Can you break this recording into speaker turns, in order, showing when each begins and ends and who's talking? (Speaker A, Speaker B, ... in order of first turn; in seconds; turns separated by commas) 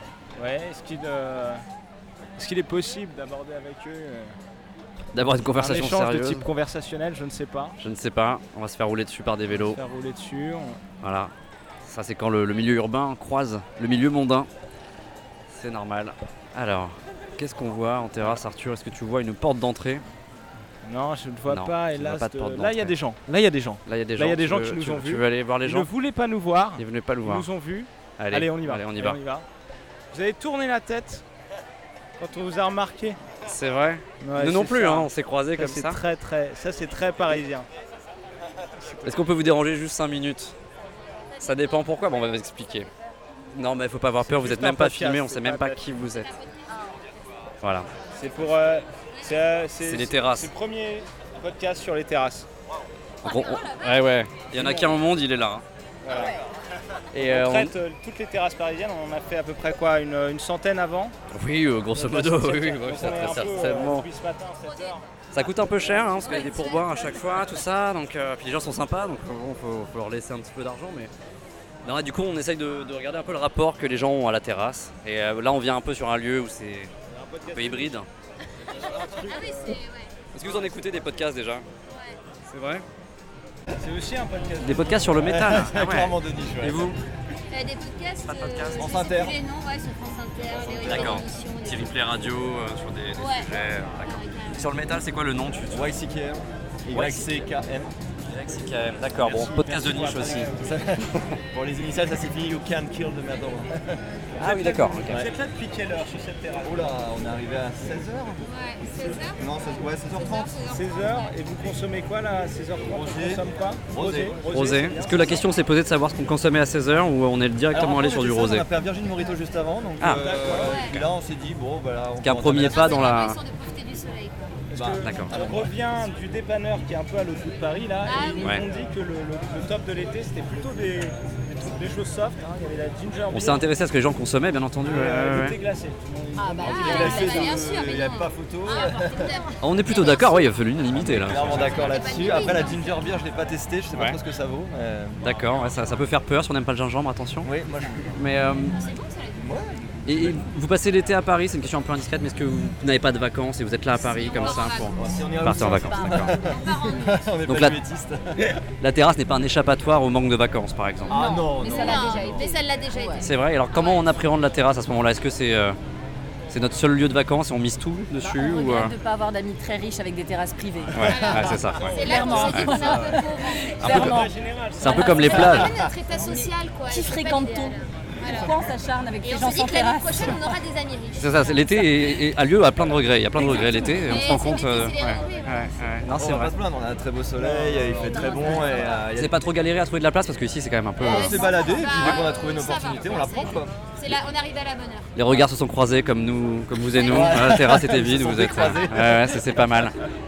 Speaker A: 0.4-1.6, Speaker A: 2.4-4.4, Speaker B: 5.1-6.4, Speaker A: 5.5-7.8, Speaker B: 7.8-9.8, Speaker A: 9.5-10.8, Speaker B: 11.0-11.3, Speaker B: 11.8-14.5, Speaker B: 15.5-20.0, Speaker A: 20.8-29.5, Speaker B: 21.5-22.9, Speaker B: 23.9-25.9, Speaker B: 26.8-27.5, Speaker B: 28.2-29.2, Speaker A: 30.1-31.2, Speaker A: 32.2-33.2, Speaker B: 33.5-36.0, Speaker A: 34.2-37.7, Speaker B: 39.0-40.5, Speaker B: 41.4-42.9, Speaker B: 43.5-46.3, Speaker A: 44.2-45.8, Speaker B: 47.6-47.9, Speaker A: 48.1-52.5, Speaker B: 49.8-50.5, Speaker B: 53.2-55.6, Speaker C: 53.2-54.0, Speaker A: 54.5-55.0, Speaker A: 56.0-56.4, Speaker B: 57.1-57.7, Speaker A: 57.1-61.1, Speaker B: 61.3-64.0, Speaker A: 61.9-66.2, Speaker B: 65.3-71.1, Speaker C: 66.2-67.6, Speaker B: 71.8-76.9, Speaker A: 77.1-78.0, Speaker B: 77.5-78.1, Speaker A: 78.9-79.8, Speaker C: 79.0-80.1, Speaker B: 80.3-81.7, Speaker C: 81.9-82.2, Speaker B: 82.5-82.8, Speaker A: 83.8-85.5, Speaker B: 84.6-87.0, Speaker D: 85.2-86.8, Speaker C: 87.5-92.0, Speaker B: 88.2-88.9, Speaker D: 88.8-89.3, Speaker B: 90.8-95.9, Speaker C: 93.2-95.0, Speaker D: 95.7-97.9, Speaker B: 96.9-97.5, Speaker B: 98.3-100.5, Speaker A: 99.1-100.8, Speaker D: 100.6-101.0, Speaker D: 101.5-103.7, Speaker B: 104.4-105.2, Speaker A: 104.4-106.9, Speaker D: 106.6-108.4, Speaker C: 108.4-111.3, Speaker D: 109.3-110.5, Speaker A: 110.7-115.4, Speaker D: 112.9-113.4, Speaker D: 113.9-115.4, Speaker B: 114.5-118.7, Speaker D: 117.7-123.1, Speaker B: 120.0-120.3, Speaker A: 120.2-120.9, Speaker C: 120.4-121.0, Speaker B: 122.2-123.4, Speaker C: 122.6-124.6, Speaker A: 124.7-133.7, Speaker D: 124.7-125.7, Speaker B: 125.0-125.3, Speaker C: 128.0-128.6, Speaker B: 133.3-135.6, Speaker A: 134.8-137.5, Speaker C: 136.4-140.5, Speaker D: 136.7-139.4, Speaker B: 139.6-142.0, Speaker D: 141.0-145.4, Speaker C: 141.3-143.3, Speaker B: 143.9-144.2, Speaker B: 145.2-147.5, Speaker D: 147.4-148.1, Speaker B: 148.1-148.8, Speaker C: 148.6-149.6, Speaker D: 149.4-149.7, Speaker B: 150.0-156.3, Speaker C: 153.9-155.2, Speaker D: 155.0-158.4, Speaker E: 155.6-156.2, Speaker C: 155.9-157.4, Speaker B: 157.5-157.8, Speaker B: 158.8-161.3, Speaker D: 161.1-162.4, Speaker C: 161.1-164.1, Speaker E: 161.2-163.3, Speaker B: 163.2-165.8, Speaker B: 166.5-168.9, Speaker E: 168.2-171.1, Speaker B: 170.9-172.7, Speaker C: 171.0-174.1, Speaker A: 171.7-175.7, Speaker E: 172.0-175.5, Speaker B: 173.8-174.2, Speaker B: 174.8-175.7, Speaker C: 174.8-178.6, Speaker E: 176.0-180.6, Speaker C: 179.2-182.2, Speaker B: 181.2-186.5, Speaker C: 183.3-185.9, Speaker D: 186.1-189.4, Speaker A: 187.4-188.8, Speaker B: 189.1-192.2, Speaker C: 191.0-195.1, Speaker D: 191.0-193.7, Speaker B: 195.2-199.9, Speaker C: 196.9-197.4, Speaker D: 197.0-199.5